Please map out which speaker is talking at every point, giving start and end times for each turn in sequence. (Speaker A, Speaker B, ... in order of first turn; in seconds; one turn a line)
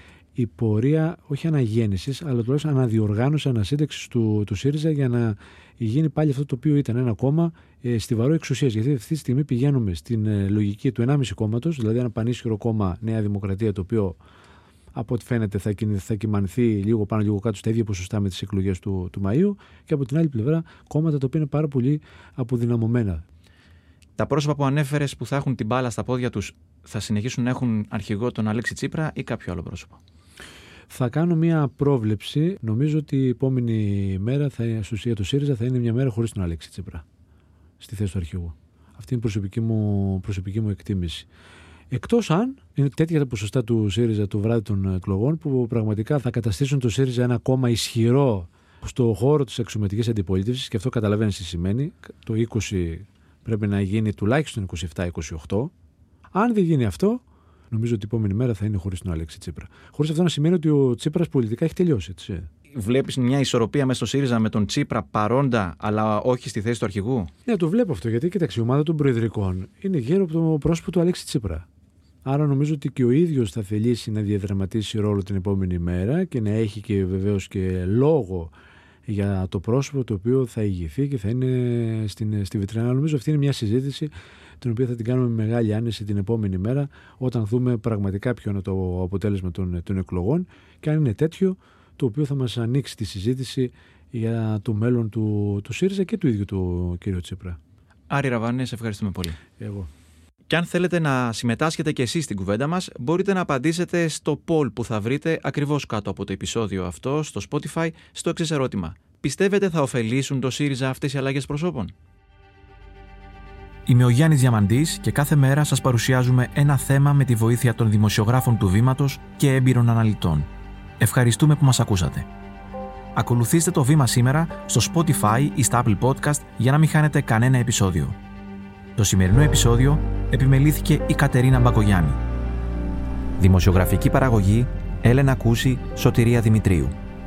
Speaker A: 0.3-14.2
Speaker A: 14.9-23.2
Speaker B: 24.2-30.0
Speaker A: 30.9-37.0
Speaker A: 37.8-41.3
Speaker A: 41.9-55.7
Speaker A: 56.3-62.5
Speaker B: 62.7-67.3
Speaker A: 67.4-71.7
Speaker A: 72.2-78.5
Speaker A: 79.1-97.6
Speaker B: 98.1-99.4
Speaker A: 99.6-99.9
Speaker B: 100.5-111.9
Speaker B: 113.9-120.5
Speaker B: 121.0-122.3
Speaker B: 123.1-128.2
Speaker B: 129.0-132.2
Speaker B: 133.4-136.9